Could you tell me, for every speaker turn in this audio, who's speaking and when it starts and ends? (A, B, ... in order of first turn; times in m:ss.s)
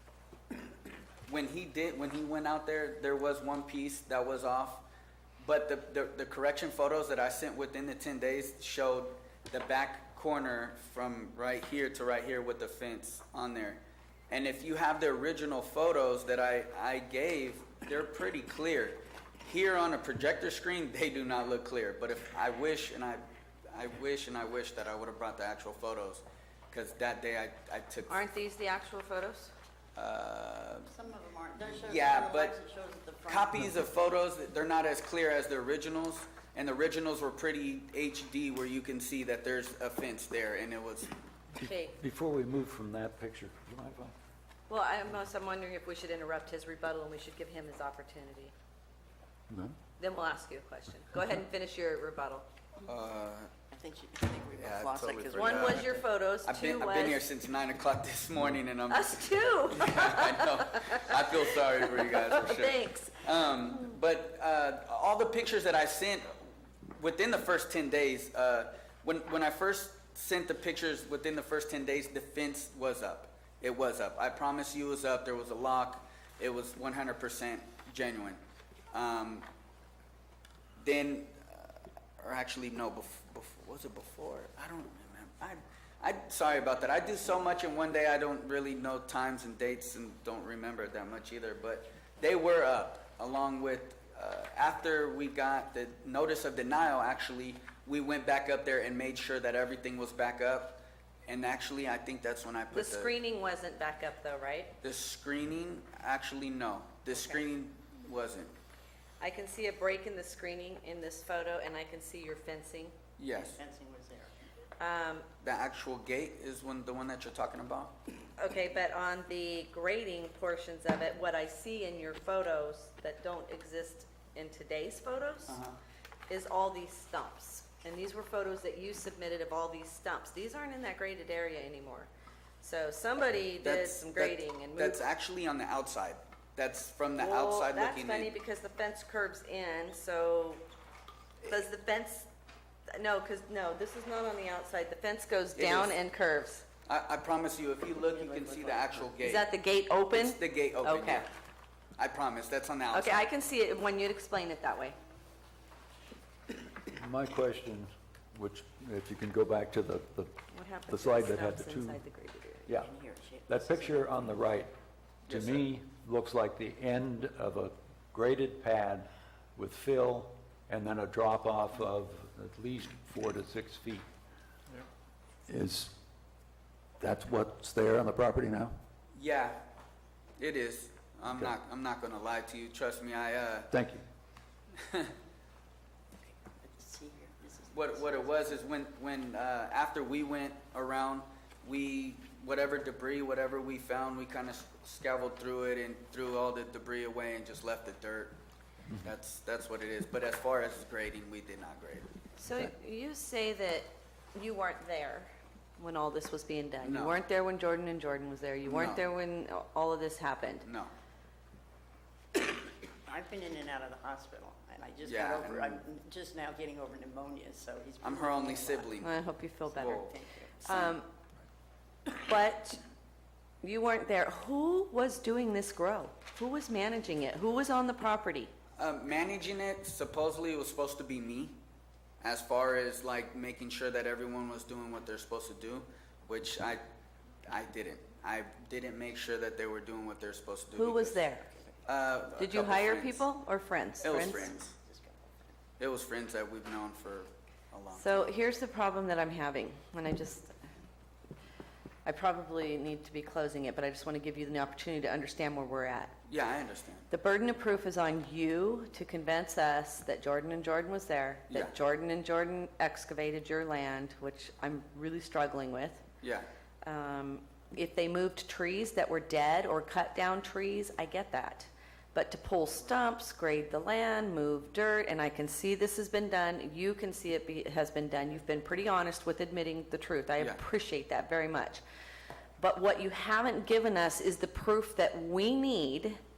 0:01.2-0:04.8 A
0:05.4-0:28.2 A
0:28.1-0:29.5 B
0:30.0-0:30.9 A
0:30.8-0:33.6 C
0:31.8-0:32.6 A
0:33.3-0:41.1 A
0:41.6-0:44.1 D
0:41.6-0:42.0 B
0:44.7-0:48.5 B
0:49.5-0:49.8 D
0:50.0-0:52.4 B
0:52.8-0:53.5 A
0:53.7-0:56.1 C
0:54.6-1:18.4 A
0:55.3-0:57.2 B
0:58.9-1:03.2 B
1:18.9-1:19.4 A
1:20.8-1:43.1 A
1:42.7-1:44.7 B
1:44.8-1:48.5 A
1:47.1-1:47.4 B
1:49.2-1:52.9 B
1:53.2-1:53.6 A
1:53.3-1:54.3 C
1:54.8-1:55.3 B
1:55.4-1:57.9 A
1:58.4-2:05.6 B
2:05.5-2:05.8 A
2:06.3-2:12.1 B
2:12.6-2:15.0 B
2:13.6-2:18.3 A
2:17.2-2:20.6 B
2:21.4-2:22.3 B
2:22.9-2:26.6 B
2:25.5-2:26.0 A
2:26.9-2:29.5 A
2:28.0-2:29.2 C
2:29.2-2:31.3 B
2:30.1-2:31.3 A
2:32.0-2:33.3 A
2:32.9-2:35.0 B
2:36.8-2:42.0 D
2:40.5-2:42.7 B
2:42.7-2:44.2 C
2:43.5-2:44.7 D
2:45.2-2:54.1 D
2:45.3-2:45.6 A
2:55.5-2:55.9 D
2:57.0-2:58.8 D
2:59.1-2:59.6 A
3:00.4-3:03.7 A
3:03.7-3:04.0 D
3:04.8-3:05.1 A
3:06.2-3:08.6 C
3:07.7-3:18.4 A
3:19.0-3:22.1 A
3:22.4-3:30.6 B
3:26.8-3:27.2 A
3:28.6-3:29.0 A
3:30.6-3:30.9 A
3:33.0-3:38.9 C
3:35.0-3:35.8 A
3:38.0-3:39.2 A
3:39.0-3:40.1 B
3:39.7-3:41.0 A
3:39.8-3:40.6 C
3:40.6-3:41.1 B
3:42.1-3:42.8 B
3:43.6-3:48.5 B
3:48.8-3:51.6 A
3:52.2-3:56.8 A
3:57.5-4:01.3 A
4:00.8-4:01.4 B
4:01.4-4:01.7 C
4:01.8-4:03.3 A
4:02.4-4:04.5 B
4:04.0-4:04.7 A
4:04.0-4:05.4 C
4:05.8-4:08.3 A
4:07.9-4:10.5 B
4:12.0-4:16.2 B
4:16.3-4:17.1 A
4:17.1-4:26.0 B
4:21.5-4:21.7 A
4:26.2-4:26.5 A
4:26.8-4:41.8 B
4:42.6-4:46.2 B